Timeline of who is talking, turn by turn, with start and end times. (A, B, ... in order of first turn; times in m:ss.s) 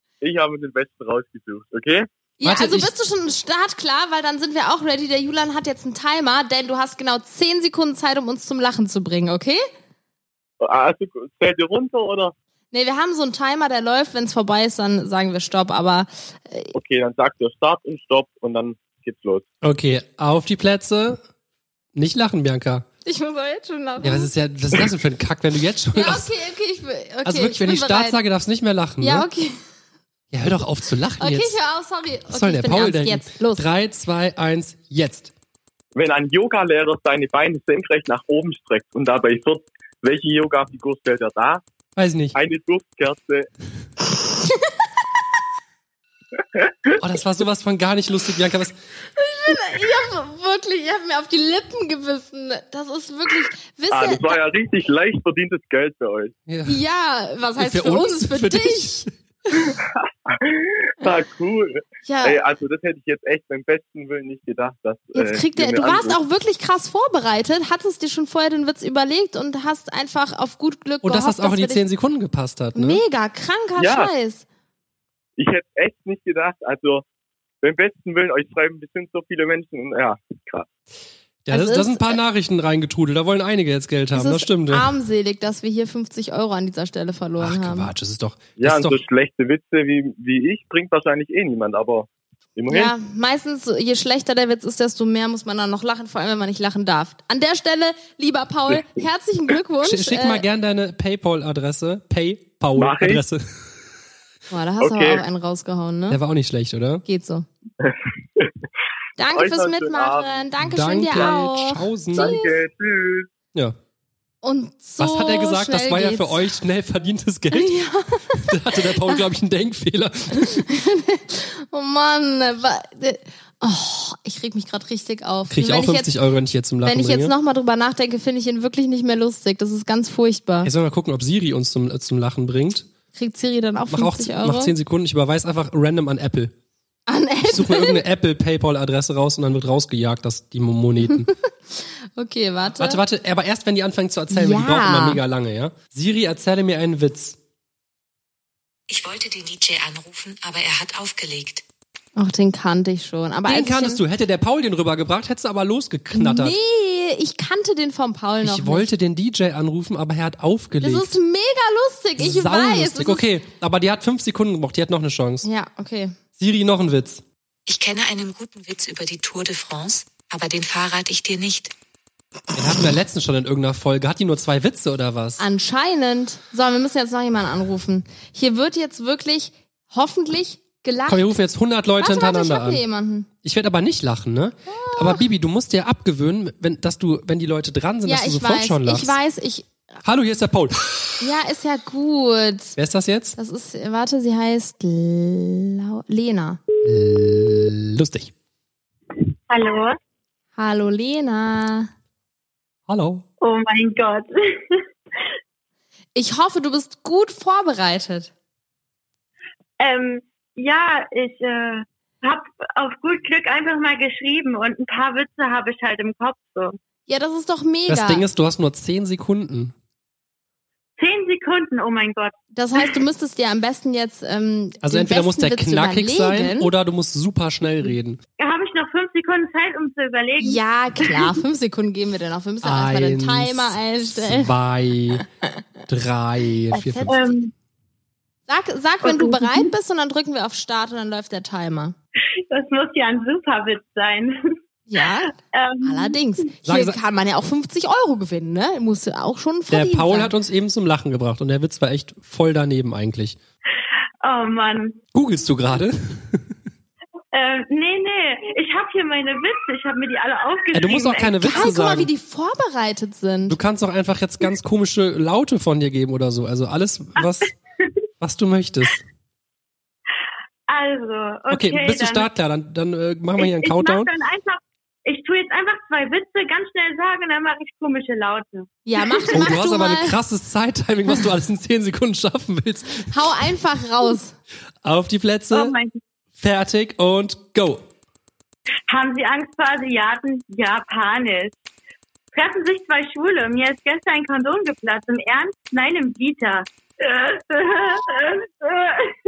0:00.2-0:02.1 A
0:02.4-0:09.6 B
0:02.4-0:02.9 C
0:10.6-0:12.3 A
0:12.7-0:16.7 B
0:16.7-0:19.5 A
0:19.6-0:21.2 C
0:22.0-0:22.9 C
0:23.1-0:24.3 B
0:24.0-0:26.3 C
0:25.9-0:28.2 B
0:27.2-0:29.3 C
0:29.0-0:29.6 B
0:30.3-0:31.6 C
0:31.2-0:33.6 B
0:32.3-0:35.3 C
0:36.0-0:41.6 A
0:42.0-0:42.4 C
0:42.4-0:43.5 A
0:47.0-0:48.8 C
0:49.2-0:54.4 B
0:53.9-0:56.3 A
0:56.5-0:56.8 C
0:56.7-0:59.0 B
0:57.6-0:59.1 C
1:00.3-1:06.2 A
1:02.1-1:02.4 B
1:05.1-1:11.8 B
1:11.0-1:13.0 C
1:12.8-1:14.4 B
1:13.8-1:14.1 A
1:15.4-1:17.0 A
1:17.6-1:20.7 A
1:21.5-1:24.9 C
1:21.5-1:22.2 B
1:24.1-1:27.9 B
1:27.4-1:29.0 C
1:28.6-1:32.9 A
1:32.7-1:40.4 B
1:39.8-1:43.4 C
1:42.8-1:43.2 A
1:44.5-1:46.2 B
1:44.8-1:45.2 A
1:46.1-1:47.0 C
1:47.1-1:47.5 B
1:47.8-1:48.5 A
1:49.2-1:52.5 B
1:49.3-1:50.4 A
1:50.6-1:52.4 C
1:52.1-1:53.3 A
1:54.4-1:56.5 B
1:55.0-1:57.8 C
1:57.5-1:59.2 B
1:58.3-2:00.7 C
2:00.4-2:06.1 B
2:05.5-2:07.3 C
2:06.8-2:10.7 B
2:10.6-2:12.9 C
2:13.2-2:14.7 B
2:13.9-2:16.5 C
2:17.1-2:18.0 B
2:17.5-2:21.3 C
2:21.8-2:23.0 B
2:22.8-2:27.4 C
2:24.3-2:25.2 B
2:28.9-2:31.6 D
2:32.2-2:34.0 B
2:33.4-2:36.6 C
2:36.2-2:38.9 B
2:38.4-2:41.1 C
2:40.8-2:43.2 B
2:42.2-2:45.5 C
2:45.4-2:46.2 B
2:46.4-2:47.2 C
2:47.7-2:51.7 D
2:52.6-2:55.4 C
2:55.4-3:01.3 B
3:01.1-3:02.8 C
3:02.0-3:03.3 B
3:03.4-3:09.2 C
3:04.7-3:05.2 B
3:08.0-3:09.7 B
3:10.0-3:11.1 C
3:11.2-3:12.8 B
3:12.8-3:13.4 C
3:13.4-3:16.6 B
3:16.8-3:18.3 C
3:19.5-3:20.0 E
3:20.6-3:21.9 B
3:22.9-3:23.2 C
3:23.4-3:24.8 E
3:26.2-3:28.3 B
3:29.8-3:36.8 E
3:37.1-3:38.3 B
3:37.9-3:39.7 C
3:41.0-3:42.3 E
3:42.6-3:46.7 B
3:44.8-3:48.2 C
3:48.4-3:51.4 E
3:50.4-3:54.5 B
3:52.6-3:55.2 C
3:55.9-3:57.2 C
3:56.7-3:57.2 B
3:57.0-3:57.5 E
3:58.5-4:02.0 B
3:59.0-3:59.7 E
4:02.4-4:04.3 E
4:04.9-4:10.3 B
4:05.4-4:06.2 E
4:06.7-4:07.0 C
4:09.7-4:13.4 C
4:14.2-4:15.0 E
4:15.1-4:16.5 C
4:17.3-4:21.8 E
4:20.7-4:22.1 C
4:21.4-4:23.6 B
4:23.5-4:27.5 C
4:28.2-4:29.0 C
4:30.7-4:32.3 E
4:31.5-4:34.1 C
4:33.4-4:39.4 E
4:38.9-4:40.2 B
4:39.3-4:43.2 C
4:43.1-4:44.4 B
4:44.8-4:45.8 C
4:45.5-4:45.9 E
4:46.4-4:47.8 C
4:48.9-4:51.6 E
4:52.3-4:59.2 E